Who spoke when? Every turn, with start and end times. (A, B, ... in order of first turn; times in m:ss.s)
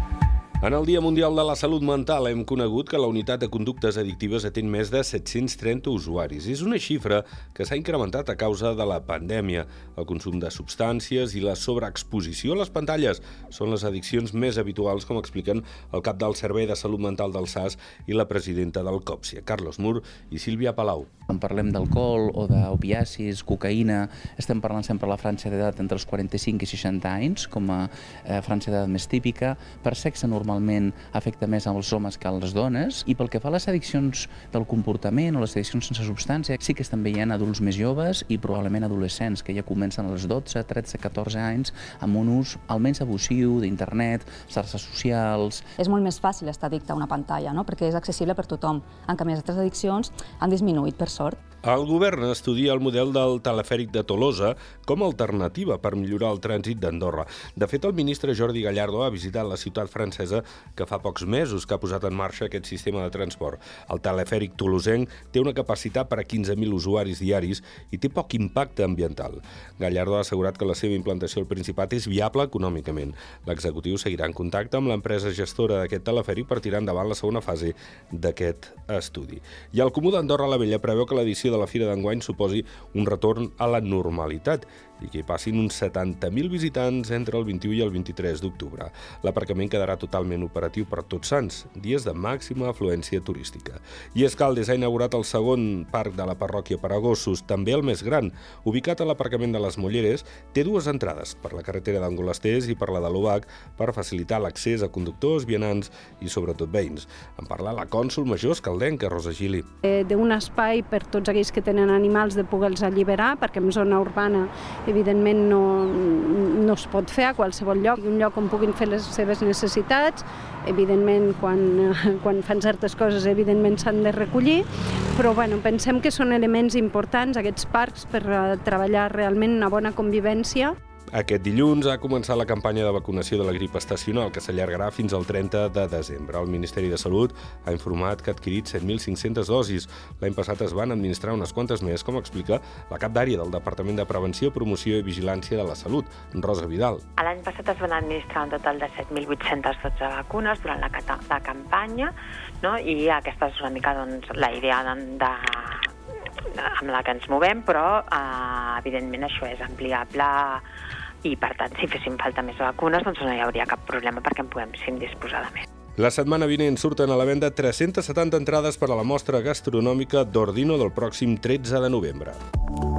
0:00.6-0:21.1 A
0:21.3-0:45.7 B
0:45.8-0:51.4 C
0:51.6-1:49.7 A
1:49.8-2:10.8 D
2:11.1-2:27.0 A
2:27.2-2:35.9 E
2:36.6-2:40.6 E
2:41.2-2:45.6 E
2:46.0-2:52.4 A